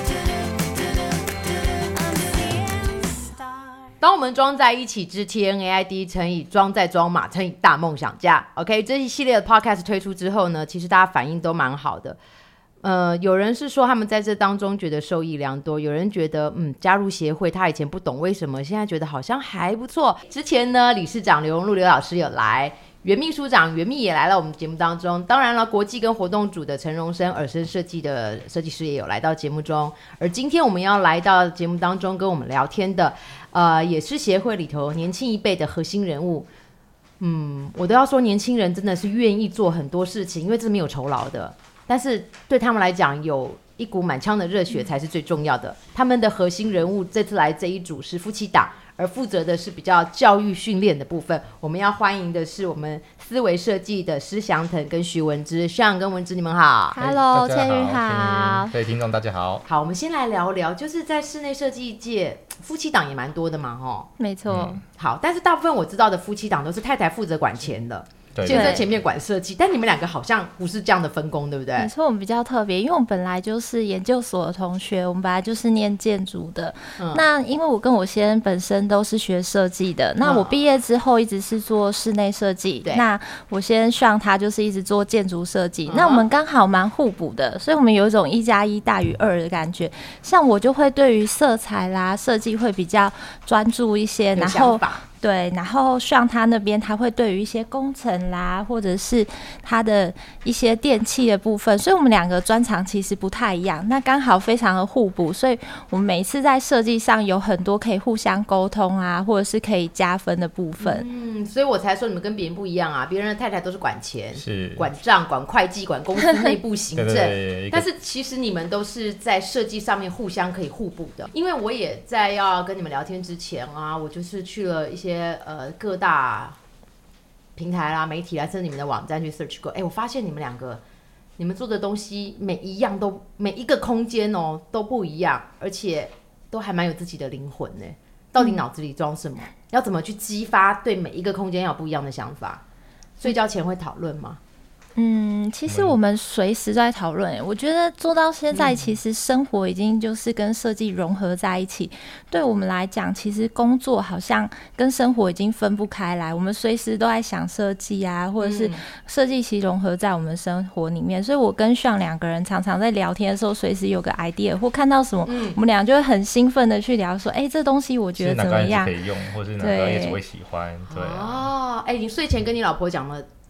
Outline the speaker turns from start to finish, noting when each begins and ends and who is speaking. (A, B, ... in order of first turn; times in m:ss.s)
0:02.1-0:03.3 A
0:04.0-0:12.2 B
0:12.8-0:36.5 B
0:37.2-0:57.0 B
0:56.9-0:58.7 A
0:57.0-0:59.6 C
0:59.7-1:04.1 B
1:04.2-1:04.8 A
1:04.5-1:04.8 C
1:05.0-1:11.9 B
1:08.4-1:08.9 C
1:08.5-1:08.8 A
1:11.8-1:51.1 A
1:17.0-1:17.3 B
1:20.2-1:20.6 B
1:25.9-1:26.2 B
1:34.4-1:35.0 B
1:50.8-2:06.6 B
1:54.4-1:54.9 C
1:57.0-1:57.9 C
2:07.6-2:10.8 B
2:11.4-2:22.6 B
2:23.2-2:24.4 B
2:25.0-2:49.0 A
2:25.7-2:26.0 C
2:28.5-2:28.9 B
2:38.4-2:38.8 B
2:45.3-2:45.6 B
2:48.2-2:51.5 C
2:49.6-2:50.2 A
2:50.9-2:53.3 B